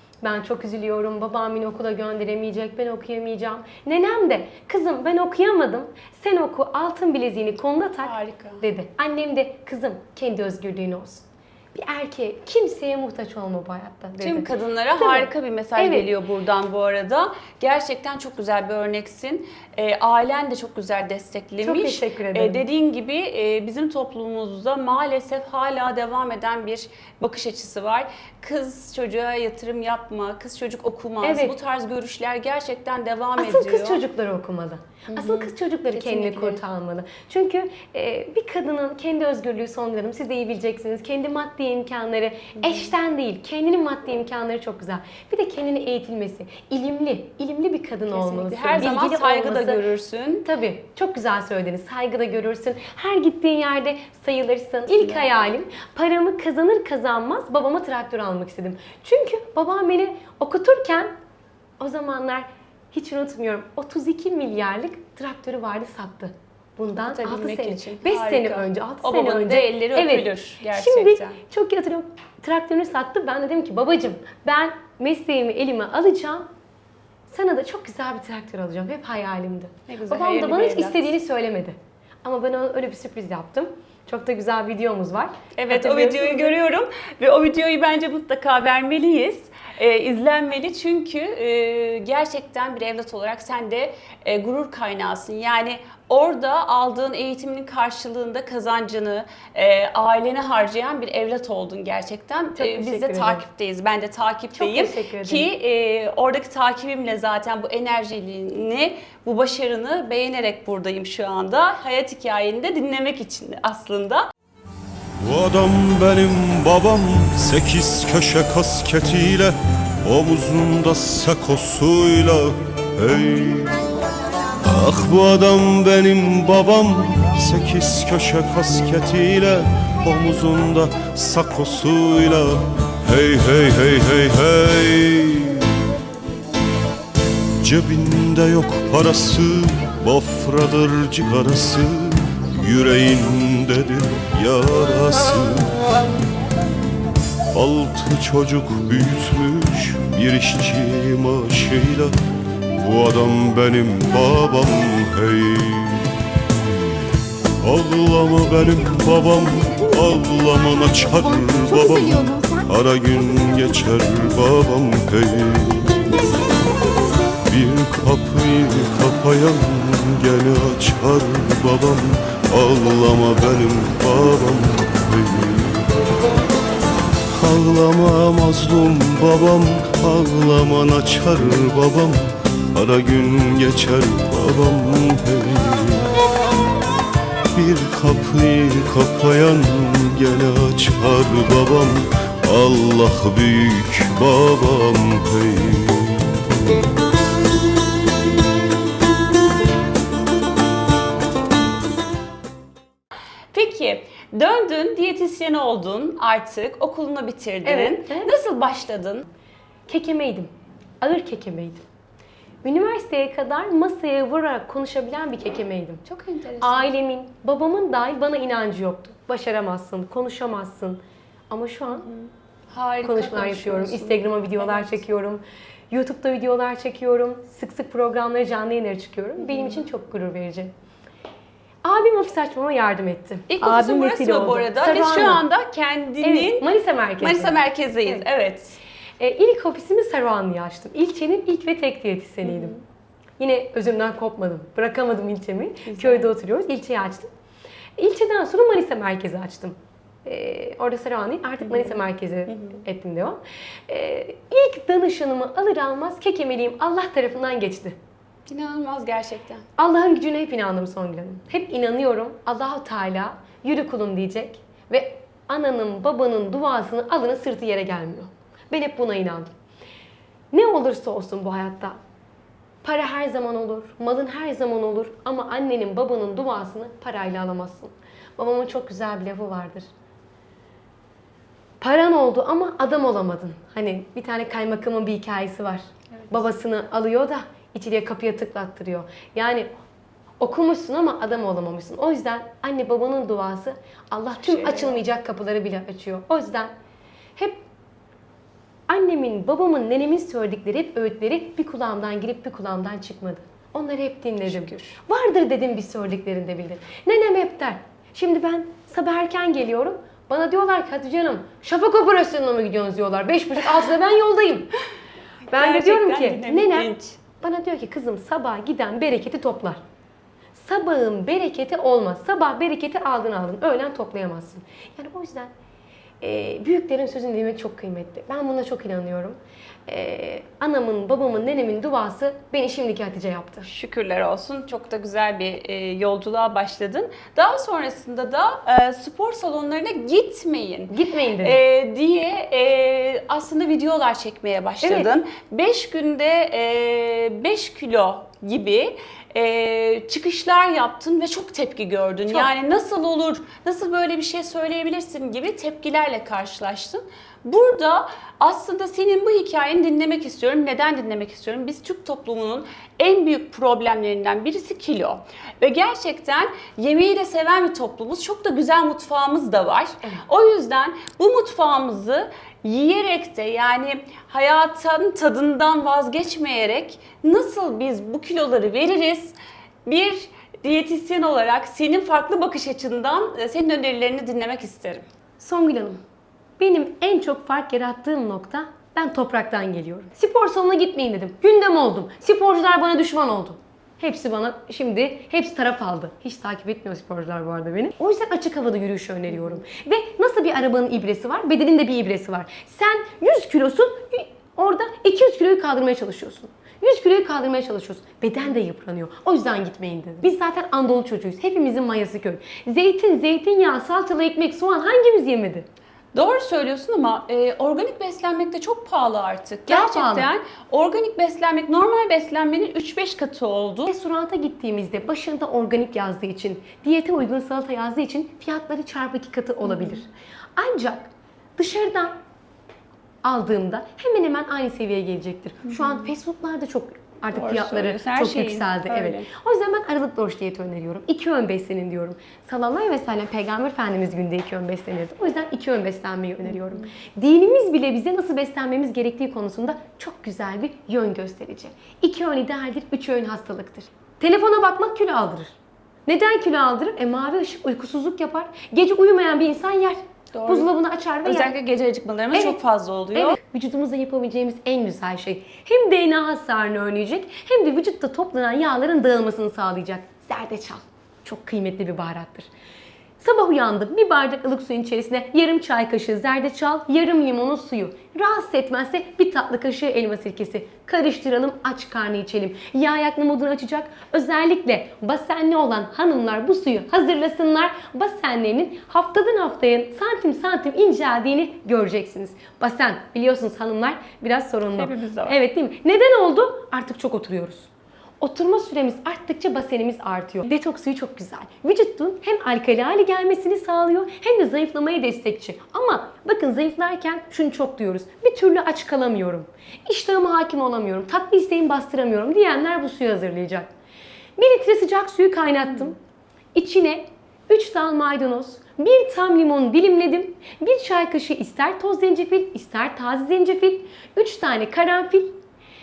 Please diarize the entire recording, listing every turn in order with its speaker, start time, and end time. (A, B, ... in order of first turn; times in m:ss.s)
0:00.2-0:16.1 A
0:08.0-0:08.6 B
0:14.2-0:34.0 B
0:21.6-0:22.6 A
0:31.2-0:31.5 A
0:33.4-0:49.8 A
0:35.1-0:36.6 B
0:48.1-0:50.4 B
0:50.4-1:01.1 A
0:54.9-0:55.3 B
1:01.8-1:16.5 A
1:07.0-1:11.4 B
1:17.3-1:26.6 A
1:19.9-1:21.1 B
1:25.6-1:54.2 B
1:42.6-1:43.4 A
1:44.5-1:45.5 A
1:55.2-2:03.9 C
2:04.6-2:15.8 C
2:17.6-2:25.8 C
2:27.5-2:32.1 C
2:32.7-2:37.0 C
2:37.6-2:46.3 C
2:47.4-2:55.9 C
2:57.3-3:06.2 C
3:07.5-3:16.4 C
3:23.5-3:29.3 B
3:27.6-3:28.3 A
3:29.9-3:31.8 A
3:32.6-3:36.0 A
3:36.0-3:36.9 B
3:36.6-3:42.1 A
3:42.0-3:45.0 B
3:43.0-3:50.7 A
3:49.4-3:49.8 B
3:51.8-3:55.4 A
3:53.5-3:58.8 B
3:56.2-3:58.2 A
3:59.2-4:02.8 A
4:02.4-4:02.8 B
4:03.4-4:07.3 A
4:05.9-4:06.3 B
4:08.0-4:18.0 A
4:11.6-4:12.8 B
4:18.5-4:19.6 B
4:19.8-4:29.5 A
4:30.5-4:32.0 A
4:32.8-4:39.9 A
4:41.8-4:49.7 A
4:50.4-4:56.7 A
4:54.4-4:55.0 B
4:57.4-4:57.6 A
4:58.9-5:14.7 A
5:04.4-5:05.0 B
5:15.5-5:19.8 A
5:15.5-5:17.2 B
5:20.5-5:25.5 A
5:26.2-5:33.7 A
5:33.6-6:25.1 B
5:40.9-5:41.6 A
5:44.8-5:45.1 A
6:25.4-6:26.0 A
6:26.6-6:55.7 A
6:56.1-7:03.9 B
6:59.7-7:00.3 A
7:03.9-7:12.1 A
7:09.6-7:10.0 B
7:13.2-7:35.5 A
7:15.7-7:16.1 B
7:17.3-7:19.3 B
7:26.5-7:26.8 B
7:36.1-7:41.5 A
7:40.3-7:40.7 B
7:41.2-7:43.4 B
7:42.3-7:42.6 A
7:43.1-7:52.5 A
7:53.2-8:17.7 A
8:14.7-8:15.4 B
8:18.2-8:33.7 A
8:34.4-8:36.0 A
8:36.5-8:45.4 A